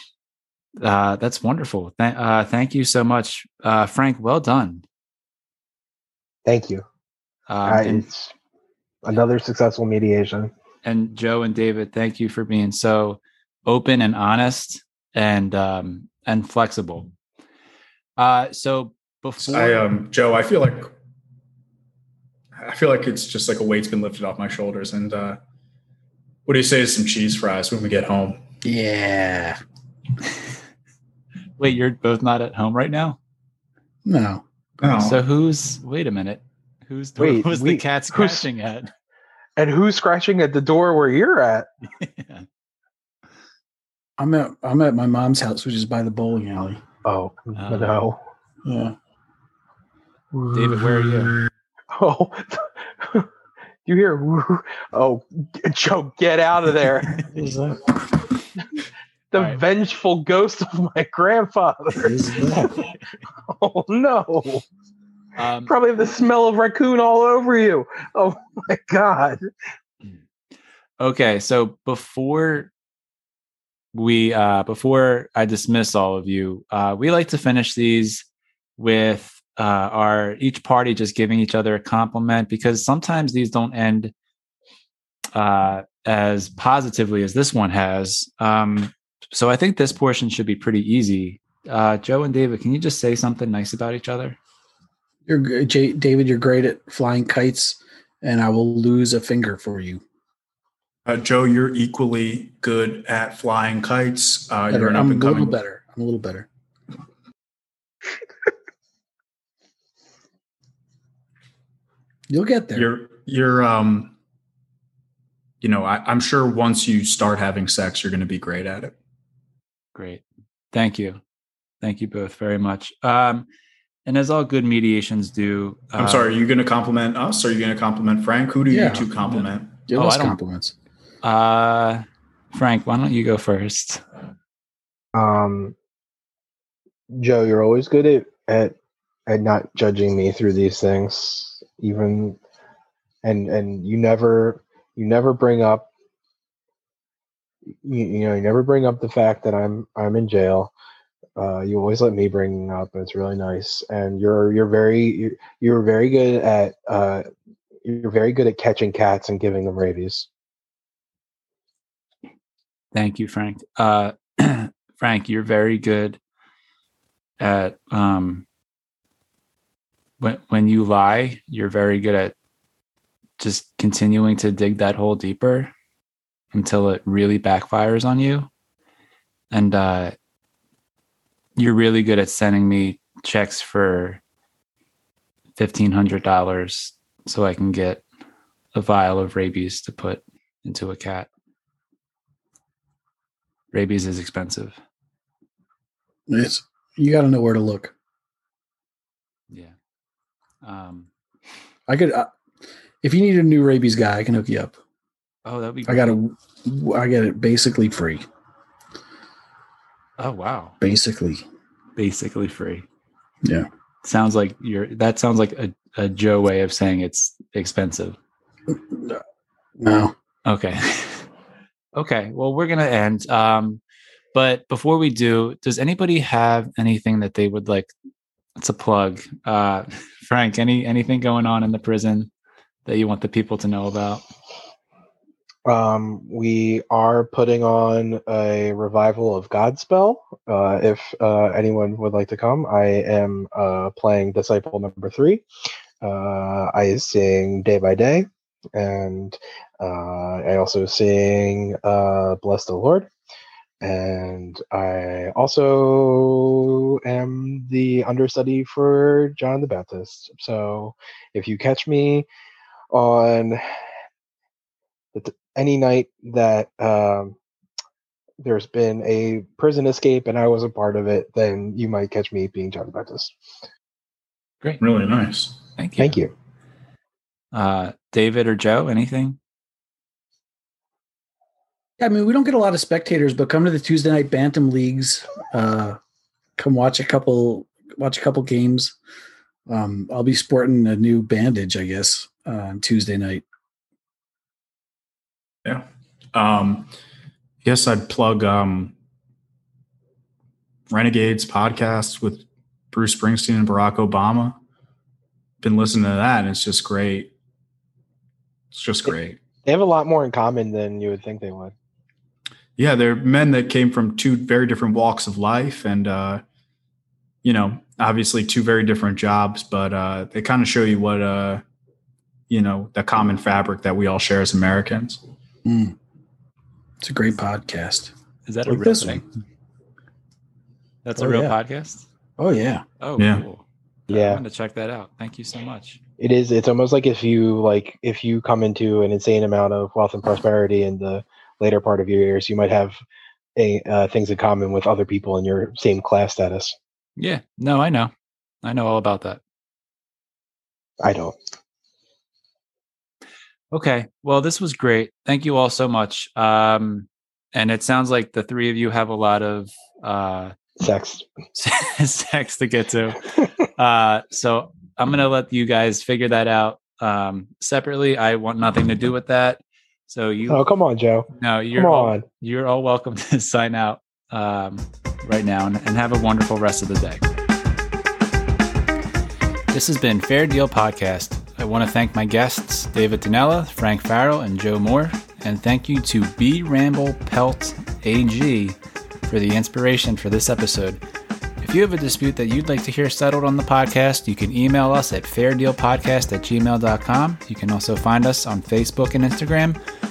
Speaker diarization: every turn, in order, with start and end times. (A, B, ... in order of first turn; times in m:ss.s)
0:00.8-0:04.8 A
0:06.4-0:06.8 B
0:07.5-0:08.1 A
0:07.6-0:08.3 B
0:09.0-0:10.5 B
0:10.8-0:17.1 A
0:18.2-0:19.8 A
0:19.5-0:20.9 C
0:22.6-0:25.4 C
0:26.5-0:28.4 C
0:28.6-0:29.6 D
0:31.6-0:33.2 A
0:34.0-0:34.4 D
0:34.8-0:35.2 C
0:35.0-0:38.9 A
0:37.2-0:38.5 B
0:39.6-0:41.7 B
0:42.0-0:42.5 A
0:44.2-0:46.8 D
0:47.0-0:48.2 B
0:47.6-0:48.0 A
0:48.6-0:49.0 D
0:50.5-0:51.4 A
0:51.9-0:53.3 B
0:53.9-0:57.2 B
0:57.2-0:58.2 D
0:59.3-1:02.2 B
0:59.3-0:59.6 A
1:02.0-1:02.9 D
1:03.5-1:04.6 B
1:05.4-1:05.7 A
1:05.7-1:09.5 B
1:11.0-1:12.7 A
1:13.9-1:18.2 A
1:18.8-1:24.1 A
1:25.3-1:34.4 A
1:35.3-1:40.0 D
1:41.0-1:45.5 C
1:44.7-1:46.5 D
1:52.3-1:52.9 D
1:52.8-1:54.1 C
1:55.6-1:59.0 C
2:00.0-2:01.2 A
2:01.8-2:03.5 A
2:04.1-2:06.3 A
2:06.0-2:09.7 C
2:08.7-2:10.7 D
2:09.9-2:10.4 A
2:11.2-2:14.0 A
2:15.1-2:15.8 B
2:17.1-2:18.8 B
2:19.3-2:22.4 B
2:23.2-2:25.9 B
2:27.8-2:30.7 B
2:31.4-2:37.3 B
2:37.8-2:40.3 B
2:42.9-2:46.2 A
2:47.4-2:48.5 A
2:50.2-2:52.4 A
2:53.4-2:55.7 A
2:56.5-2:58.5 A
2:59.5-3:00.2 A
3:01.6-3:04.2 A
3:05.6-3:08.0 A
3:08.7-3:11.3 A
3:13.7-3:14.8 A
3:16.3-3:17.9 D
3:19.5-3:19.8 A
3:20.6-3:21.1 A
3:21.9-3:22.3 D
3:23.0-3:24.8 D
3:25.4-3:26.2 A
3:25.9-3:28.2 D
3:30.2-3:30.8 A
3:30.8-3:31.4 D
3:32.0-3:32.9 A
3:34.0-3:38.2 A
3:38.7-3:39.2 D
3:39.8-3:40.1 D
3:40.5-3:41.3 A
3:41.9-3:43.8 A
3:44.3-3:47.9 A
3:48.6-3:52.3 A
3:52.8-3:54.2 A
3:55.7-4:05.4 B
4:06.0-4:13.1 B
4:13.8-4:22.3 B
4:22.9-4:23.6 B
4:25.2-4:27.4 B
4:28.4-4:33.4 B
4:34.8-4:35.6 C
4:35.8-4:36.2 A
4:36.0-4:36.3 B
4:37.5-4:39.4 A
4:42.0-4:46.0 D
4:46.6-4:49.0 D
4:49.7-4:53.4 D
4:55.6-4:56.9 C
4:57.6-4:58.9 C
5:00.9-5:04.6 C
5:05.6-5:07.3 C
5:08.7-5:09.4 C
5:09.1-5:11.7 B
5:12.8-5:16.4 C
5:17.4-5:21.6 C
5:22.5-5:25.2 C
5:25.6-5:26.0 D
5:27.0-5:28.1 D
5:28.5-5:29.2 A
5:28.7-5:29.2 D
5:31.0-5:32.1 A
5:31.2-5:31.6 D
5:32.4-5:32.8 D
5:33.0-5:36.0 A
5:33.2-5:33.4 C
5:34.1-5:34.4 B
5:36.2-5:43.0 B
5:43.6-5:46.8 B
5:47.2-5:48.1 A
5:48.6-5:49.4 A
5:51.0-5:51.4 B
5:53.7-6:00.6 A
6:00.8-6:01.3 B
6:01.5-6:10.6 A
6:10.5-6:12.2 B
6:11.3-6:17.2 A
6:19.7-6:31.0 A
6:31.6-6:39.8 A